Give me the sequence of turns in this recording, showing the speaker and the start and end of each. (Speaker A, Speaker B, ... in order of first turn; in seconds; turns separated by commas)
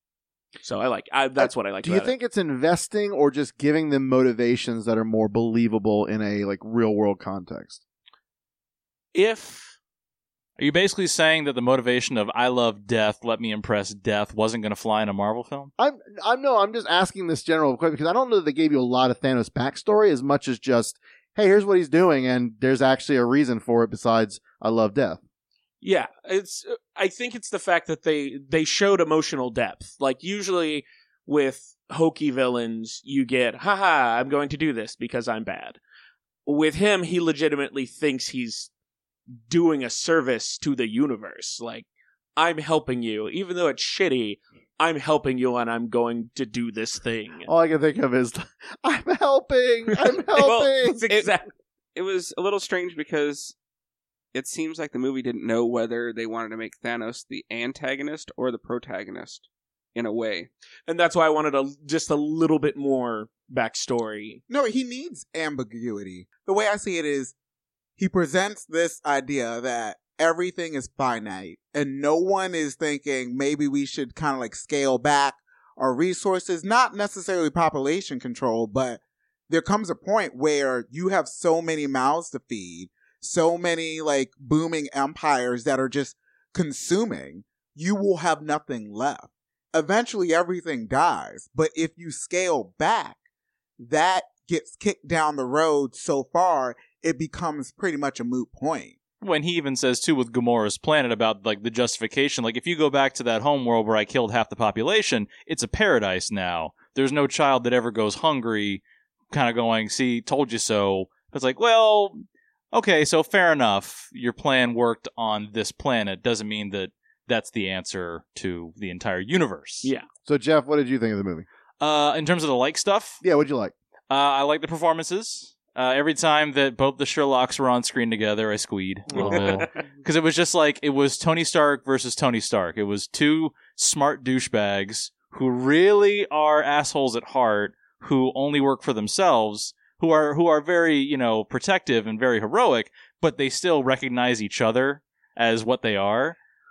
Speaker A: 0.6-2.1, Speaker B: 1.4-7.8, Speaker A: 9.1-9.8, Speaker C: 10.6-15.7, Speaker B: 15.8-25.2, Speaker A: 25.8-35.8, Speaker A: 36.5-38.7, Speaker A: 39.5-47.5, Speaker B: 47.5-51.1, Speaker A: 50.3-51.5, Speaker D: 51.9-53.5, Speaker D: 54.3-60.5, Speaker A: 60.9-64.4, Speaker E: 64.5-67.3, Speaker E: 68.0-93.2, Speaker E: 93.8-99.0, Speaker C: 99.2-119.9, Speaker B: 120.2-121.5, Speaker C: 121.8-123.2, Speaker B: 123.2-123.7, Speaker C: 124.1-146.4, Speaker A: 129.1-129.7, Speaker B: 129.1-129.7